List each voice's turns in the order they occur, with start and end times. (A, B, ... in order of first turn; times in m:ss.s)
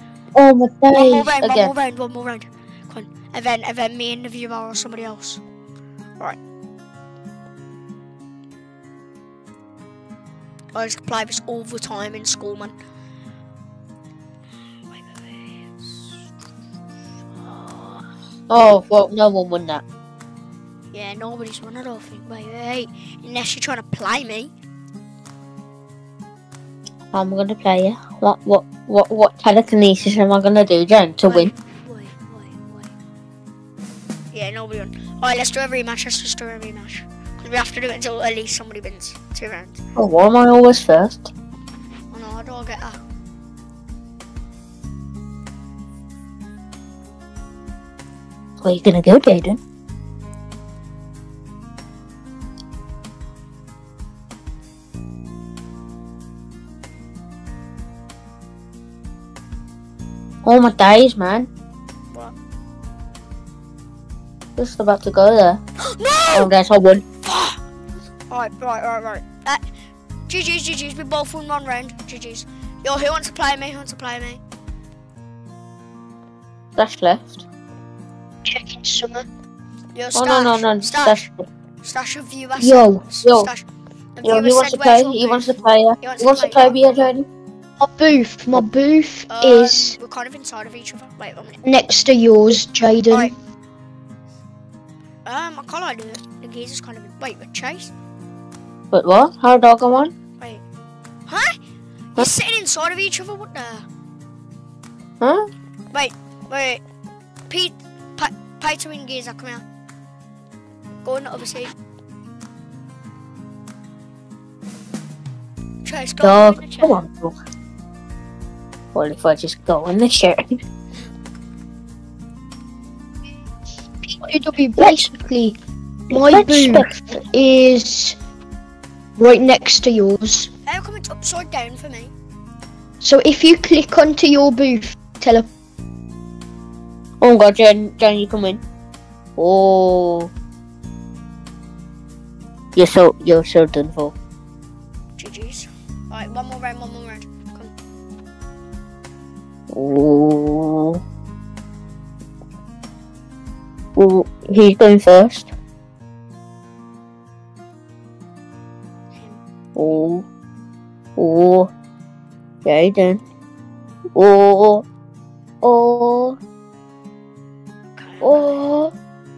0:00.3-0:01.7 A
0:00.9-0:05.4 B
0:10.7-0:12.7 B
0:14.9-0:16.2 B
0:17.4-0:18.1 B
0:18.5-0:19.8 A
0:20.9-0:24.5 B
0:27.1-0:31.5 A
0:31.2-0:32.9 B
0:34.3-0:39.8 B
0:40.0-0:41.3 A
0:42.1-0:43.0 B
0:48.6-0:49.6 A
1:00.4-1:01.5 A
1:04.6-1:05.6 A
1:05.8-1:06.5 B
1:06.3-1:07.0 A
1:07.2-1:07.6 B
1:08.3-1:09.6 B
1:10.3-1:14.4 B
1:16.8-1:17.5 A
1:18.4-1:19.3 C
1:19.9-1:21.3 B
1:20.1-1:21.4 A
1:21.8-1:26.8 B
1:22.6-1:23.0 C
1:23.2-1:23.5 A
1:24.2-1:27.3 A
1:27.8-1:30.0 C
1:29.3-1:31.6 B
1:31.6-1:33.3 C
1:35.2-1:37.9 B
1:38.9-1:40.1 A
1:41.3-1:41.6 B
1:42.2-1:43.9 B
1:45.2-1:45.5 A
1:45.9-1:46.8 B
1:47.5-1:49.6 B
1:51.0-1:51.7 B
1:55.8-1:57.0 B
1:56.2-1:57.4 A
1:58.9-2:00.6 A
2:04.0-2:05.6 C
2:06.1-2:07.2 A
2:06.1-2:08.2 C
2:09.2-2:10.5 C
2:10.7-2:12.1 B
2:13.0-2:15.5 C
2:17.2-2:18.6 A
2:19.4-2:20.3 A
2:22.8-2:24.2 A
2:25.2-2:27.7 B
2:29.7-2:31.0 A
2:34.0-2:35.5 A
2:39.2-2:39.4 B
2:39.8-2:40.3 A
2:41.2-2:41.7 A
2:42.6-2:43.2 A
2:44.2-2:44.8 A
2:45.6-2:46.4 A
2:48.0-2:48.7 B
2:48.2-2:48.9 A